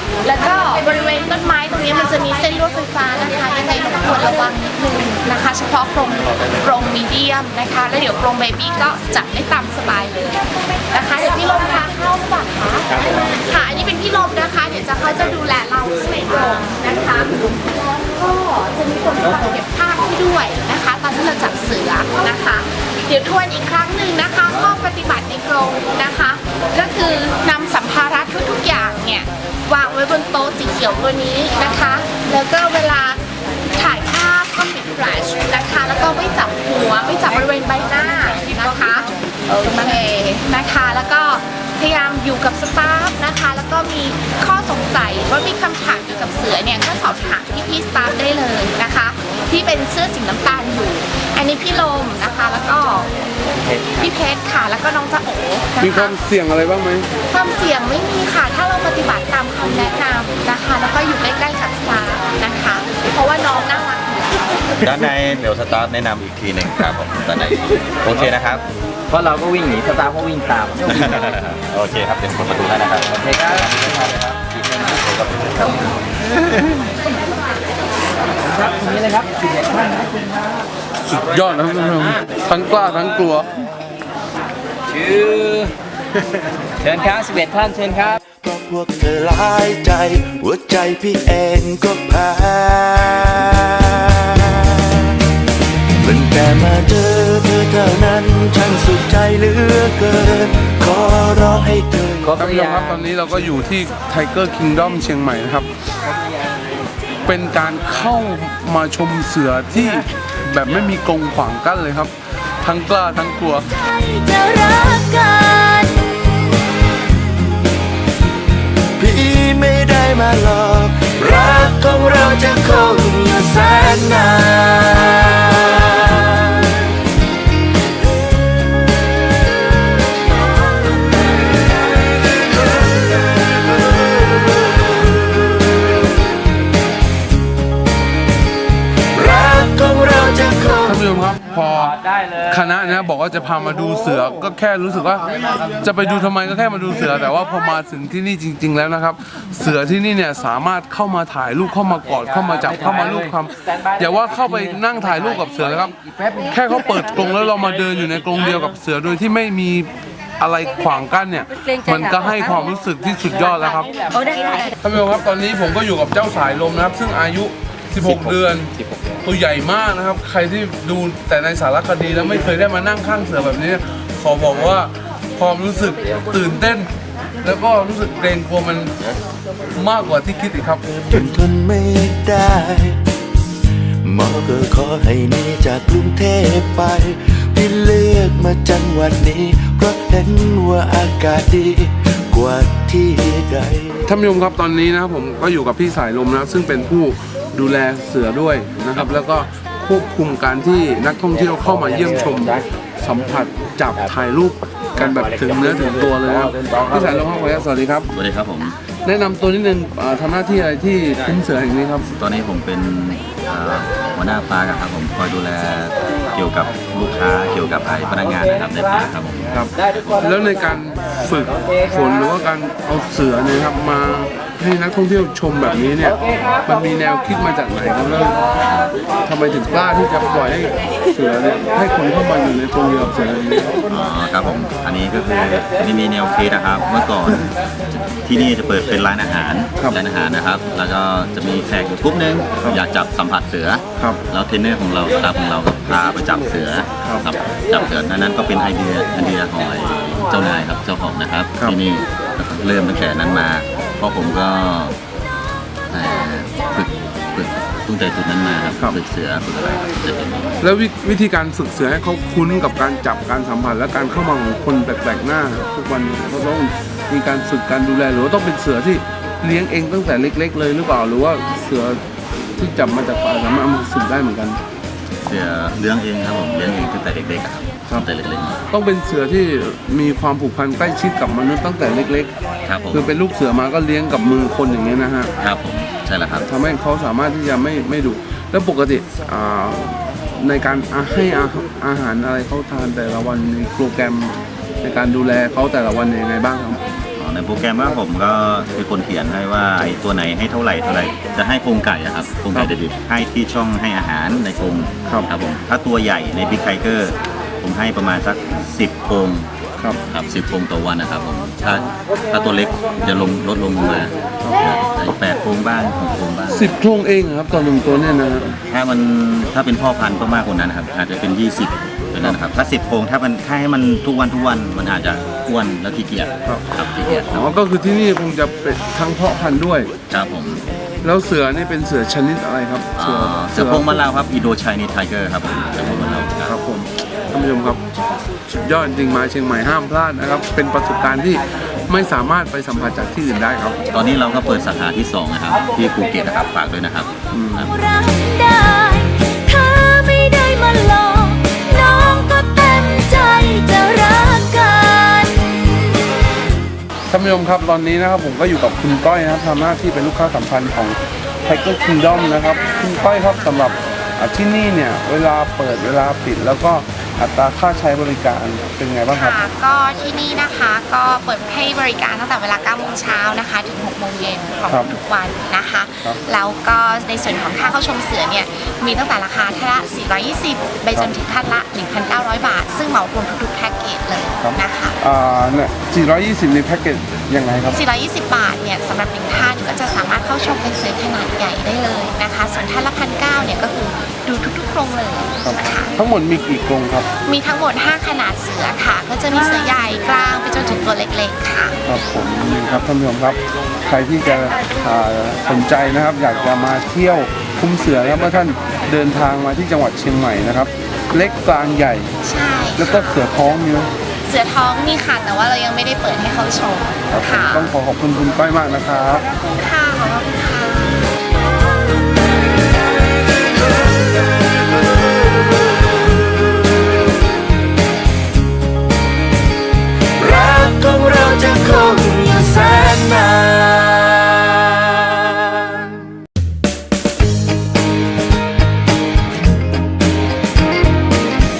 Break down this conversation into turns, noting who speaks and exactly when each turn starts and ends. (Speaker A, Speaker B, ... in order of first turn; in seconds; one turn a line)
Speaker A: 0.2-33.2
Speaker A: 33.7-53.1
Speaker B: 53.5-54.1
Speaker A: 53.9-56.1
Speaker C: 55.8-57.1
Speaker A: 57.3-64.6
Speaker D: 64.8-68.7
Speaker B: 69.1-71.1
Speaker D: 70.8-73.7
Speaker B: 73.2-74.5
Speaker B: 75.1-75.7
Speaker B: 78.7-79.3
Speaker C: 81.1-83.5
Speaker B: 85.0-85.7
Speaker B: 86.8-88.2
Speaker E: 88.2-94.8
Speaker E: 96.0-102.4
Speaker B: 102.3-103.1
Speaker C: 102.3-105.7
Speaker C: 107.2-113.6
Speaker F: 113.7-116.6
Speaker E: 119.0-126.7
Speaker F: 122.7-124.3
Speaker E: 133.8-134.4
Speaker E: 139.1-141.0
Speaker C: 140.8-164.0
Speaker C: 164.8-168.7
Speaker C: 169.2-176.9
Speaker C: 177.4-178.9
Speaker C: 179.7-181.2
Speaker E: 181.1-183.0
Speaker E: 184.0-194.0
Speaker C: 194.1-208.1
Speaker D: 198.9-199.2
Speaker D: 208.1-208.8
Speaker C: 209.0-212.0
Speaker D: 212.1-220.1
Speaker C: 219.5-228.4
Speaker C: 229.2-233.8
Speaker D: 233.9-237.5
Speaker D: 238.2-255.0
Speaker D: 255.9-260.6
Speaker C: 260.6-272.0
Speaker C: 272.6-274.6
Speaker D: 275.2-278.6
Speaker C: 278.7-282.3
Speaker D: 282.6-283.2
Speaker C: 282.9-285.3
Speaker D: 285.4-286.5
Speaker C: 286.5-296.8
Speaker D: 297.2-309.5
Speaker D: 310.1-316.9
Speaker C: 316.5-318.5
Speaker D: 318.7-327.6
Speaker C: 327.3-329.9
Speaker D: 330.1-330.6
Speaker C: 331.0-334.0
Speaker D: 332.9-336.6
Speaker C: 336.4-337.8
Speaker C: 338.5-343.8
Speaker D: 343.9-347.7
Speaker C: 347.3-347.6
Speaker F: 347.6-356.0
Speaker C: 357.1-369.4
Speaker A: 362.0-363.7
Speaker A: 369.1-385.0
Speaker C: 374.7-374.9
Speaker C: 384.4-387.8
Speaker A: 387.7-395.9
Speaker C: 395.4-397.1
Speaker A: 397.2-401.8
Speaker C: 401.9-412.1
Speaker A: 412.2-413.2
Speaker C: 412.8-413.9
Speaker A: 414.2-417.8
Speaker C: 417.1-419.2
Speaker A: 419.4-421.1
Speaker E: 430.2-435.9